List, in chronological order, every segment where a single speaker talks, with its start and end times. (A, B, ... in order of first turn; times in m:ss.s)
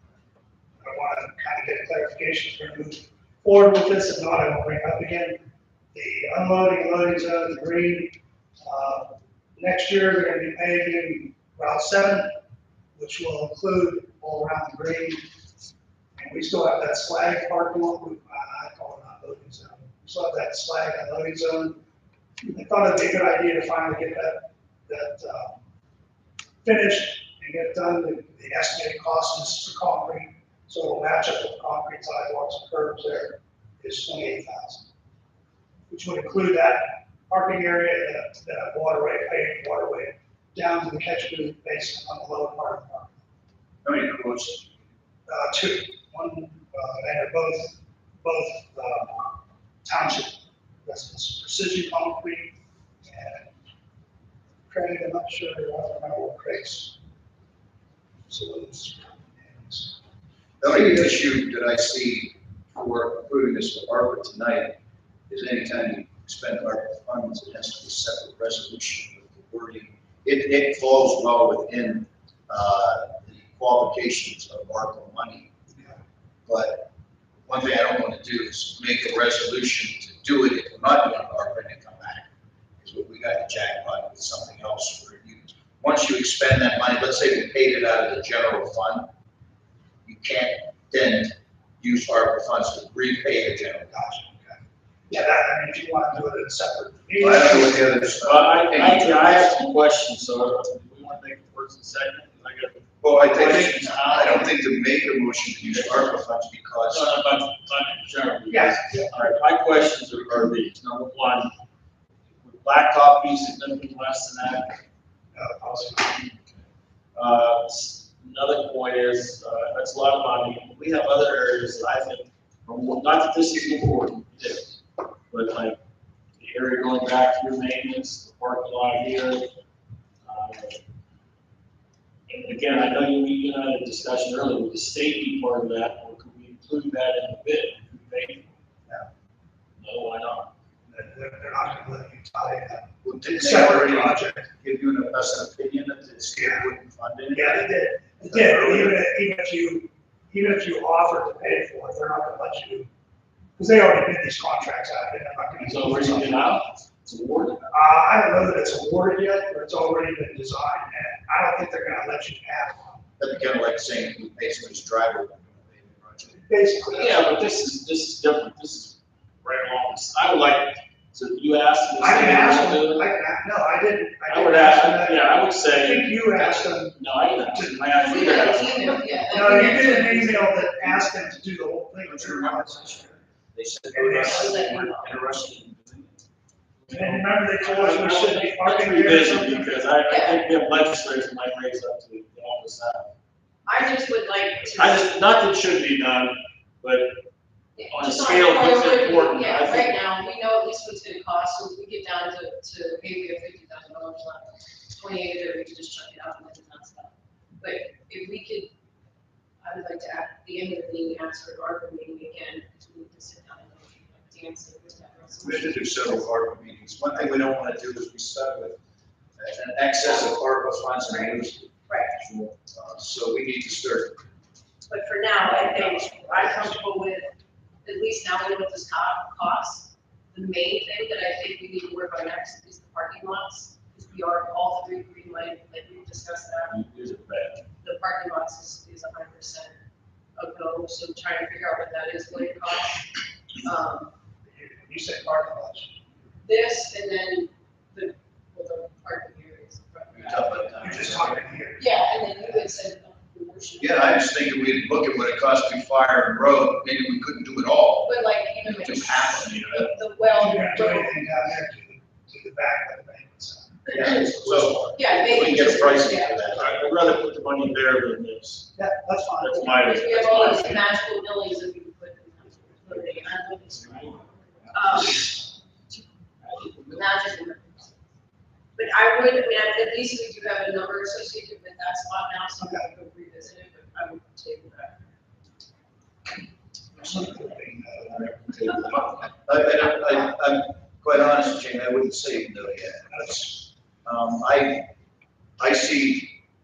0:00.8-0:05.4 A
0:05.9-0:12.4 A
0:13.0-0:15.2 A
0:16.2-0:21.8 A
0:22.4-0:25.6 A
0:26.6-0:34.9 A
0:35.9-0:43.2 A
0:43.8-0:44.7 B
0:45.3-0:49.3 A
0:49.8-0:53.6 A
0:54.7-0:57.0 A
0:58.3-1:00.0 A
1:00.6-1:04.8 B
1:05.3-1:15.5 B
1:15.7-1:16.0 A
1:16.4-1:16.9 B
1:17.4-1:22.3 B
1:22.8-1:29.1 B
1:30.0-1:33.9 B
1:33.9-1:38.2 A
1:37.2-1:39.5 B
1:38.2-1:44.5 C
1:43.0-1:47.1 B
1:45.7-1:46.1 C
1:46.9-1:51.5 C
1:48.5-1:49.1 A
1:52.4-1:54.8 C
1:55.3-1:56.3 A
1:57.1-2:04.8 C
2:05.3-2:05.8 C
2:06.4-2:09.5 C
2:10.2-2:10.8 C
2:12.3-2:18.5 C
2:19.8-2:20.5 C
2:20.8-2:24.5 A
2:23.0-2:27.7 B
2:26.3-2:26.7 A
2:27.3-2:32.9 A
2:28.3-2:29.0 B
2:33.6-2:36.6 A
2:35.6-2:37.6 C
2:37.7-2:43.0 A
2:43.2-2:46.4 B
2:46.3-2:47.3 A
2:46.9-2:53.1 C
2:52.0-2:57.0 A
2:54.3-2:58.9 C
2:57.5-2:58.5 A
2:58.0-3:00.7 D
2:59.3-3:03.2 A
3:02.0-3:06.0 B
3:03.9-3:04.8 A
3:04.2-3:05.3 D
3:06.8-3:13.1 C
3:06.9-3:09.8 A
3:10.1-3:10.4 D
3:13.7-3:15.1 D
3:14.8-3:17.2 C
3:17.8-3:28.7 D
3:17.9-3:19.9 C
3:29.6-3:36.2 D
3:35.4-3:38.8 B
3:39.4-3:44.2 B
3:41.1-3:41.3 D
3:41.9-3:42.2 D
3:44.8-3:56.8 D
3:45.4-3:46.8 B
3:56.7-3:57.7 C
3:57.8-3:59.8 D
4:00.4-4:03.1 D
4:03.6-4:04.1 D
4:04.4-4:06.0 A
4:06.4-4:10.7 D
4:10.1-4:11.4 B
4:10.8-4:12.7 A
4:11.8-4:14.2 D
4:13.8-4:19.9 B
4:18.0-4:21.2 D
4:20.3-4:25.0 A
4:23.9-4:26.8 B
4:24.9-4:26.5 D
4:26.5-4:28.7 C
4:28.8-4:29.7 A
4:29.4-4:30.8 C
4:29.6-4:35.4 D
4:36.4-4:37.2 C
4:36.9-4:38.0 D
4:38.8-4:45.0 D
4:42.6-4:42.9 A
4:47.0-4:48.6 A
4:48.1-4:49.3 C
4:49.4-4:54.9 B
4:53.1-4:53.5 A
4:55.6-4:56.4 B